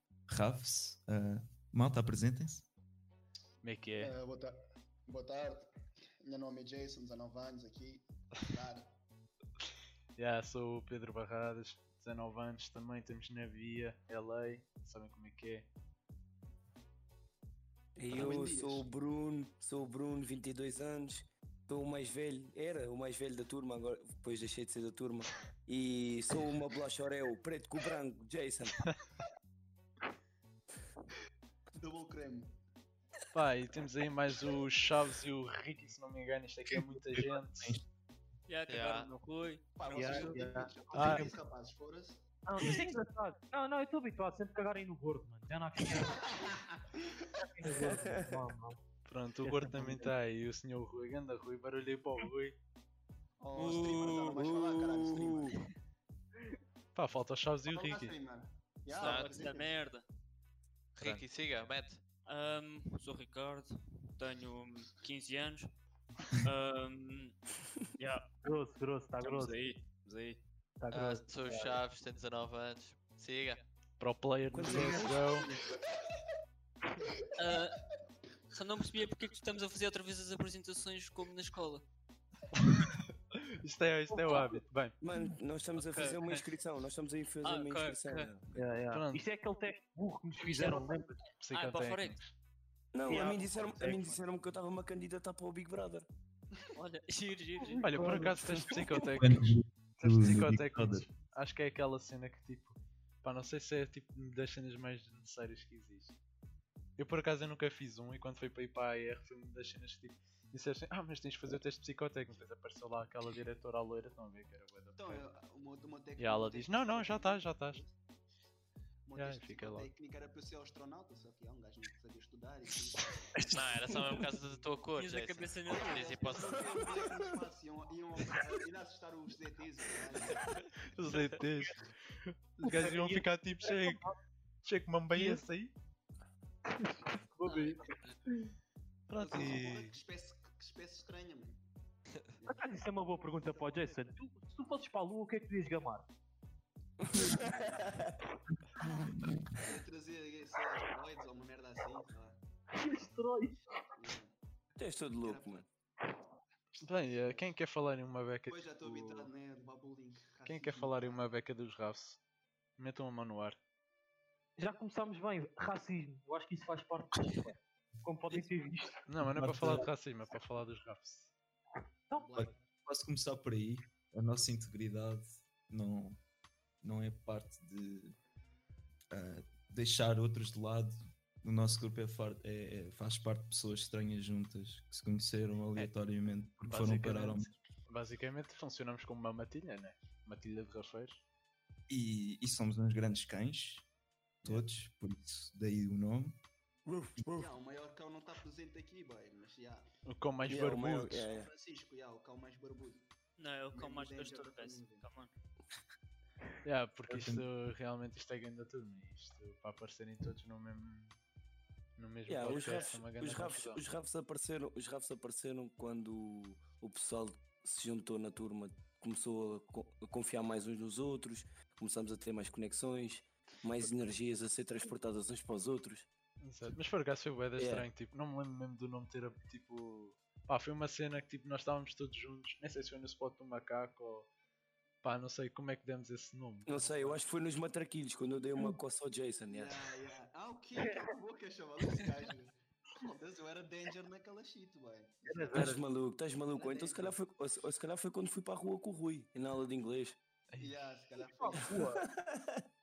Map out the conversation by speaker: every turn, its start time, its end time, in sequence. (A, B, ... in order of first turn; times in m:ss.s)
0:00.3-0:02.7 A
0:03.6-0:04.1 B
0:04.0-0:04.6 C
0:05.1-0:05.7 C
0:06.2-0:08.9 C
0:10.2-0:15.7 B
0:18.0-0:28.8 D
0:18.1-0:18.9 C
0:31.7-0:32.6 C
0:33.3-0:37.8 B
0:36.7-0:37.8 A
0:38.5-0:40.4 E
0:38.7-0:39.1 F
0:39.8-0:42.2 C
0:39.9-0:41.2 G
0:40.9-0:41.3 B
0:42.4-0:46.4 G
0:46.0-0:47.4 C
0:47.5-0:48.8 G
0:47.8-0:48.4 D
0:49.1-0:52.6 B
0:49.8-0:50.1 D
0:53.4-0:55.6 C
0:53.6-0:54.4 E
0:53.6-0:55.6 D
0:56.9-0:58.1 B
0:57.6-0:59.7 C
0:58.9-1:00.0 E
0:59.0-0:59.4 F
1:01.0-1:02.0 F
1:02.2-1:05.7 E
1:06.3-1:07.3 E
1:08.0-1:08.4 E
1:08.3-1:09.6 G
1:09.2-1:10.4 E
1:10.8-1:11.2 G
1:10.9-1:13.6 F
1:14.0-1:15.5 B
1:14.5-1:15.5 D
1:15.5-1:16.1 C
1:17.0-1:17.6 C
1:17.4-1:17.8 E
1:18.5-1:21.8 E
1:23.4-1:24.9 B
1:24.1-1:24.6 G
1:25.0-1:28.6 D
1:25.8-1:26.2 E
1:27.4-1:28.3 E
1:28.5-1:31.2 G
1:28.9-1:29.2 B
1:30.4-1:31.0 E
1:31.4-1:32.3 B
1:31.5-1:32.2 E
1:32.9-1:36.1 D
1:33.1-1:33.4 G
1:33.1-1:33.9 C
1:36.7-1:38.4 E
1:37.6-1:38.4 G
1:37.8-1:46.1 B
1:39.2-1:41.1 A
1:47.0-1:55.2 B
1:55.0-1:57.9 C
1:56.2-1:57.8 B
1:59.0-2:03.6 C
1:59.2-1:59.9 B
2:03.5-2:06.6 F
2:04.2-2:04.6 C
2:04.9-2:06.7 E
2:05.6-2:10.7 C
2:07.0-2:07.2 D
2:10.9-2:11.8 B
2:12.6-2:14.0 B
2:12.6-2:14.2 G
2:14.6-2:15.7 B
2:15.1-2:15.4 G
2:16.7-2:17.8 G
2:17.4-2:17.8 B
2:19.1-2:19.9 B
2:19.2-2:21.6 C
2:22.4-2:22.7 C
2:22.5-2:26.0 G
2:23.4-2:24.1 C
2:27.0-2:28.2 D
2:27.1-2:28.1 C
2:28.8-2:29.4 A
2:29.6-2:32.4 C
2:32.7-2:33.6 G
2:34.0-2:34.3 C
2:34.8-2:35.7 D
2:35.2-2:35.6 C
2:36.8-2:39.3 B
2:37.2-2:37.5 C
2:38.5-2:41.2 C
2:40.4-2:42.2 B
2:42.8-2:43.6 B
2:44.6-2:49.0 G
2:49.1-2:51.3 B
2:49.2-2:49.9 A
2:52.1-2:52.4 G
2:52.2-2:52.6 C
2:52.4-2:56.2 A
2:56.8-2:58.2 A
2:59.1-3:07.5 A
3:06.7-3:11.2 B
3:11.9-3:13.9 A
3:14.4-3:16.4 A
3:16.8-3:17.5 D
3:17.3-3:19.9 C
3:20.0-3:21.3 B
3:20.5-3:21.5 D
3:21.3-3:23.1 C
3:23.4-3:25.3 E
3:23.7-3:25.0 C
3:26.6-3:31.2 B
3:27.1-3:27.4 A
3:32.0-3:33.8 B
3:32.3-3:46.1 D
3:32.5-3:32.8 E
3:46.4-3:54.3 B
3:47.6-3:47.9 D
3:55.0-3:57.2 B
3:56.6-3:59.8 D
3:59.5-4:05.8 C
4:05.2-4:05.8 G
4:05.5-4:10.2 D
4:06.5-4:07.2 C
4:10.5-4:10.8 B
4:10.6-4:11.7 C
4:11.2-4:12.0 G
4:11.6-4:12.6 D